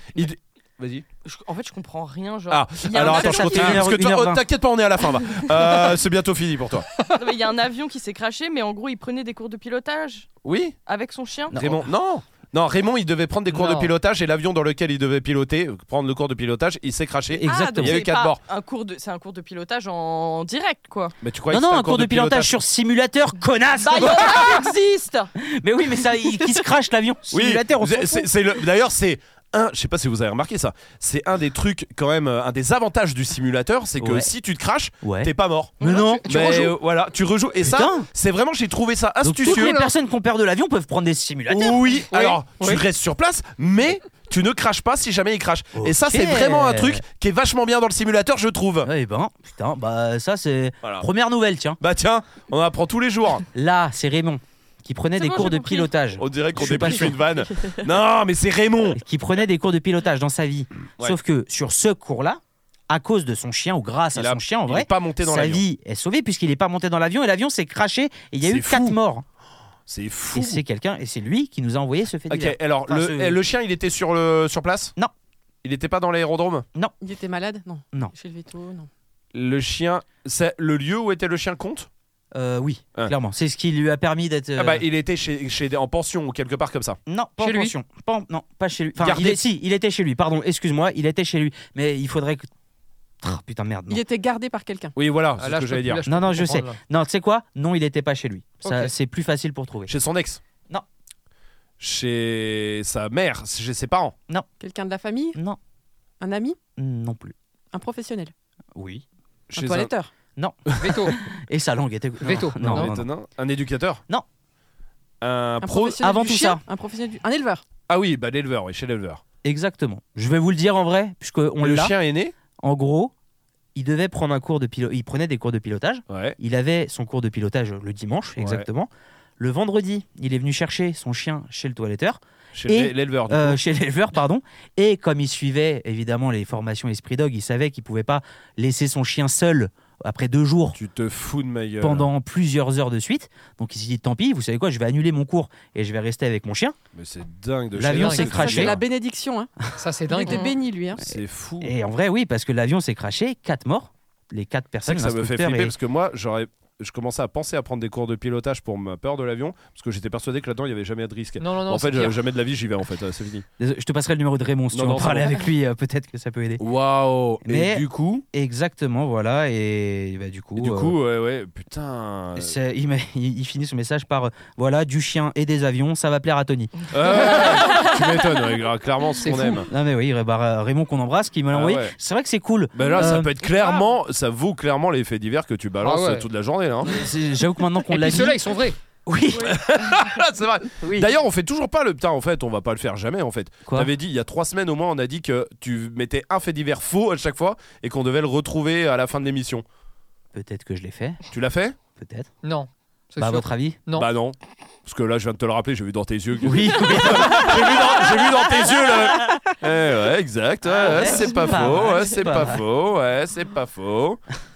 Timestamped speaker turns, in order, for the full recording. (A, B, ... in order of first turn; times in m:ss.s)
0:00.2-0:01.0 A
0:01.2-0:03.9 B
0:02.5-0:06.9 A
0:02.9-0:04.4 C
0:07.1-0:11.6 B
0:10.4-0:10.8 A
0:11.5-0:11.9 C
0:11.6-0:18.4 A
0:13.5-0:13.9 D
0:17.4-0:18.0 C
0:17.4-0:21.2 B
0:21.2-0:22.5 A
0:21.5-0:24.7 C
0:23.8-0:25.3 B
0:24.1-0:24.4 A
0:25.4-0:28.3 C
0:26.3-0:26.6 B
0:27.3-0:35.8 A
0:34.0-0:34.3 C
0:35.0-0:36.3 C
0:35.8-0:36.7 D
0:36.3-0:39.8 A
0:37.6-0:38.1 C
0:39.2-0:42.0 C
0:39.4-0:39.9 D
0:41.5-0:48.9 A
0:42.1-0:42.8 D
0:45.8-0:47.0 C
0:48.8-0:51.8 C
0:51.8-0:53.4 A
0:53.5-0:57.2 C
0:55.2-0:55.9 B
0:56.2-0:59.0 A
0:56.8-0:57.7 B
0:58.9-1:09.2 C
1:04.2-1:05.6 A
1:08.4-1:09.0 A
1:09.9-1:10.6 A
1:10.3-1:13.4 C
1:12.3-1:14.9 A
1:15.6-1:16.7 A
1:17.0-1:18.9 E
1:19.3-1:21.9 A
1:22.3-1:24.8 C
1:24.6-1:27.0 A
1:27.1-1:32.5 C
1:27.4-1:27.8 D
1:29.0-1:29.4 A
1:33.2-1:34.0 C
1:33.9-1:34.9 E
1:35.0-1:36.0 A
1:35.4-1:36.8 D
1:36.1-1:39.9 C
1:38.6-1:38.9 D
1:39.9-1:40.4 A
1:41.8-1:44.2 A
1:44.6-1:45.4 E
1:46.2-1:46.6 E
1:46.8-1:47.3 C
1:47.7-1:48.3 E
1:48.8-1:49.0 C
1:49.5-1:49.9 A
1:49.5-1:50.1 E
1:50.4-1:53.1 C
1:50.8-1:51.2 D
1:52.2-1:52.9 D
1:52.6-1:54.0 A
1:55.2-1:56.0 A
1:55.6-1:57.6 E
1:56.0-1:56.6 C
1:57.9-1:59.2 A
1:59.4-2:02.0 C
2:01.6-2:02.3 A
2:02.6-2:03.1 C
2:03.8-2:20.8 C
2:06.1-2:06.4 A
2:08.4-2:08.7 A
2:12.6-2:13.6 A
2:20.7-2:22.1 A
2:21.8-2:26.8 C
2:26.9-2:28.8 A
2:27.7-2:28.8 C
2:28.0-2:29.5 E
2:29.8-2:30.4 D
2:30.1-2:31.0 E
2:30.3-2:30.5 B
2:31.0-2:31.7 A
2:31.1-2:35.8 C
2:34.9-2:43.5 A
2:41.4-2:42.2 D
2:43.6-2:46.6 C
2:44.7-2:45.4 A
2:46.6-2:48.2 A
2:47.4-2:51.0 C
2:50.6-2:52.5 A
2:52.4-2:57.3 C
2:56.9-2:59.7 A
2:57.1-2:57.9 D
2:59.2-2:59.6 D
2:59.7-3:03.3 C
3:01.5-3:02.0 A
3:02.7-3:07.0 A
3:02.8-3:03.9 B
3:05.8-3:06.3 D
3:06.8-3:08.4 C
3:07.9-3:08.8 D
3:09.1-3:09.6 C
3:09.3-3:10.1 B
3:09.4-3:19.6 A
3:13.7-3:13.9 C
3:20.3-3:21.2 C
3:21.3-3:21.8 A
3:22.0-3:22.3 C
3:22.4-3:24.1 D
3:23.2-3:23.8 C
3:23.9-3:34.2 A
3:26.4-3:28.0 C
3:30.6-3:32.6 C